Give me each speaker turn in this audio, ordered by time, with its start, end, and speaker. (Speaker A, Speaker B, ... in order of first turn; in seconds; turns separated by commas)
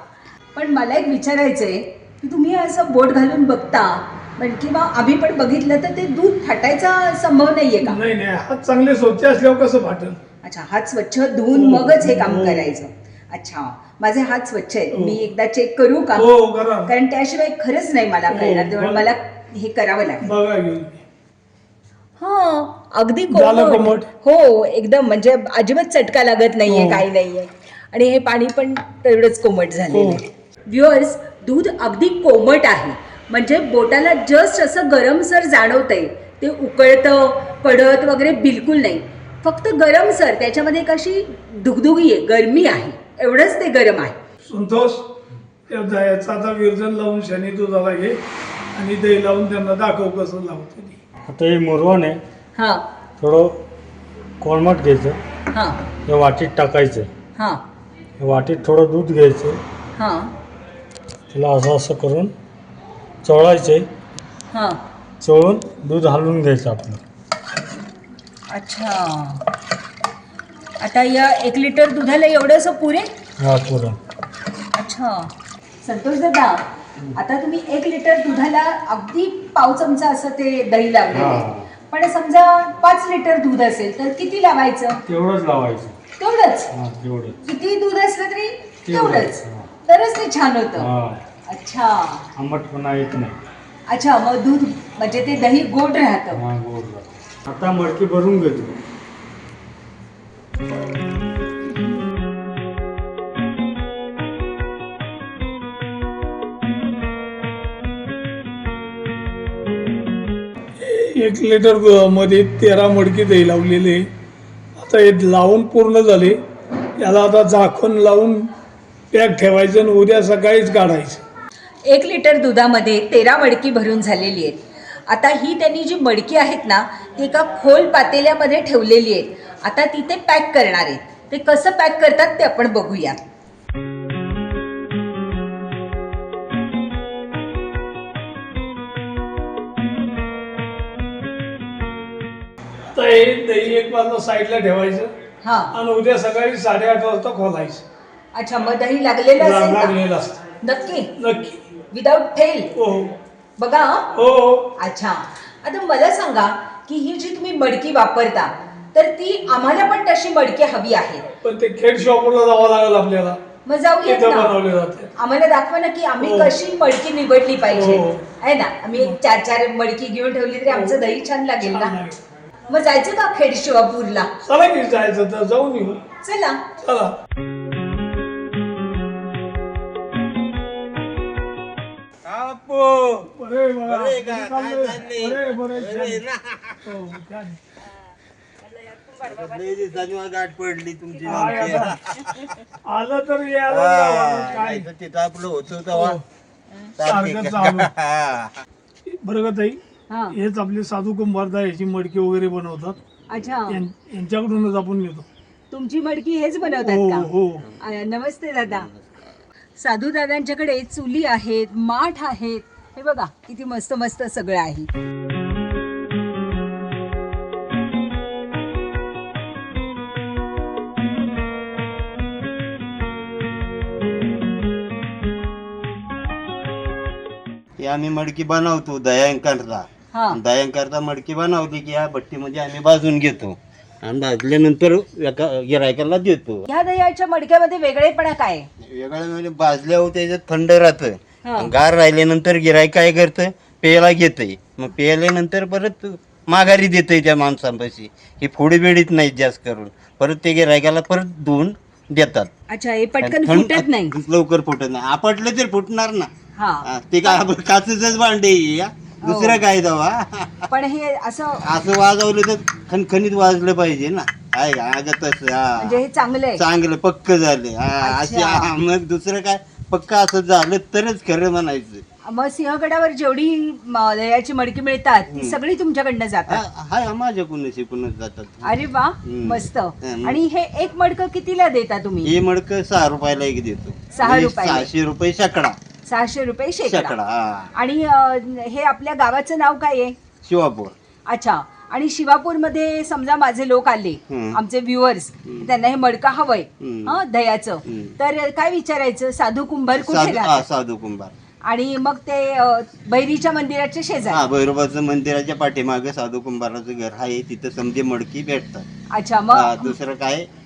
Speaker A: 0.5-8.0, Speaker B: 7.8-10.2, Speaker A: 10.4-16.3, Speaker B: 11.5-12.7, Speaker B: 14.9-15.2, Speaker B: 16.1-16.9, Speaker A: 16.9-20.3, Speaker B: 18.3-19.1, Speaker B: 20.2-21.0, Speaker A: 22.2-44.2, Speaker B: 23.3-24.1, Speaker B: 26.7-27.1, Speaker B: 29.9-30.2, Speaker B: 44.4-45.1, Speaker B: 45.7-48.2, Speaker B: 48.7-51.0, Speaker C: 51.3-52.2, Speaker A: 52.5-52.9, Speaker C: 53.2-53.6, Speaker C: 54.4-55.2, Speaker A: 55.5-55.9, Speaker C: 56.0-57.1, Speaker A: 57.4-57.6, Speaker C: 58.2-59.6, Speaker A: 60.0-60.3, Speaker C: 61.3-62.3, Speaker C: 63.2-63.9, Speaker A: 64.5-64.8, Speaker C: 65.2-67.0, Speaker A: 68.5-69.4, Speaker A: 70.8-73.1, Speaker C: 73.4-74.0, Speaker A: 74.8-75.3, Speaker A: 75.8-76.6, Speaker A: 77.1-85.0, Speaker C: 81.1-81.7, Speaker C: 85.0-86.0, Speaker A: 86.2-86.7, Speaker C: 86.7-87.3, Speaker A: 87.4-90.9, Speaker C: 88.8-89.7, Speaker C: 90.8-91.2, Speaker A: 91.5-92.2, Speaker C: 92.3-93.4, Speaker A: 93.9-96.4, Speaker C: 96.3-98.8, Speaker B: 110.8-114.1, Speaker B: 114.8-116.4, Speaker B: 117.0-118.5, Speaker B: 119.1-121.2, Speaker A: 121.8-133.2, Speaker B: 142.9-145.1, Speaker A: 145.4-145.7, Speaker B: 145.7-147.8, Speaker A: 148.3-150.0, Speaker B: 149.3-150.4, Speaker A: 150.6-151.1, Speaker B: 151.2-151.7, Speaker A: 151.9-152.7, Speaker B: 152.8-153.2, Speaker A: 153.6-154.1, Speaker B: 154.1-154.7, Speaker A: 154.8-161.2, Speaker B: 161.4-163.4, Speaker A: 163.6-164.6, Speaker B: 164.0-165.1, Speaker A: 165.2-171.9, Speaker B: 166.2-166.6, Speaker B: 167.7-168.3, Speaker B: 170.7-171.1, Speaker B: 171.6-172.2, Speaker A: 172.7-174.3, Speaker B: 174.4-176.1, Speaker A: 176.2-176.7, Speaker B: 176.8-177.2, Speaker D: 182.2-183.3, Speaker B: 183.3-186.2, Speaker D: 183.8-186.8, Speaker B: 186.8-187.6, Speaker D: 189.1-192.6, Speaker B: 191.3-191.9, Speaker B: 192.8-194.9, Speaker D: 193.7-196.2, Speaker B: 195.9-196.2, Speaker D: 197.0-198.6, Speaker B: 197.0-197.9, Speaker B: 199.1-199.8, Speaker A: 200.1-200.3, Speaker B: 200.3-203.0, Speaker A: 203.3-203.8, Speaker B: 203.7-205.3, Speaker A: 205.7-208.9, Speaker B: 206.6-207.7, Speaker A: 209.8-214.9, Speaker D: 227.8-236.7, Speaker A: 230.1-230.4, Speaker A: 236.7-238.7, Speaker D: 238.8-252.5, Speaker A: 241.4-241.7, Speaker A: 252.7-254.2, Speaker D: 253.2-256.3, Speaker A: 256.5-257.4, Speaker D: 256.9-260.6, Speaker A: 259.2-259.6, Speaker A: 260.7-261.6, Speaker D: 261.6-266.0, Speaker A: 265.8-266.6, Speaker D: 266.6-272.0, Speaker A: 268.0-268.7, Speaker A: 272.2-276.6, Speaker D: 275.3-275.6, Speaker D: 276.5-280.4, Speaker A: 278.6-282.3, Speaker D: 282.2-285.8, Speaker A: 284.1-284.9, Speaker A: 286.1-287.1, Speaker D: 286.9-287.7, Speaker A: 287.7-290.2, Speaker D: 290.4-290.9, Speaker A: 291.3-300.6, Speaker D: 294.3-294.6, Speaker D: 296.8-297.2, Speaker D: 297.9-298.1, Speaker D: 299.9-301.3, Speaker A: 301.6-304.4, Speaker D: 304.3-308.9, Speaker A: 309.1-309.9, Speaker D: 309.5-310.5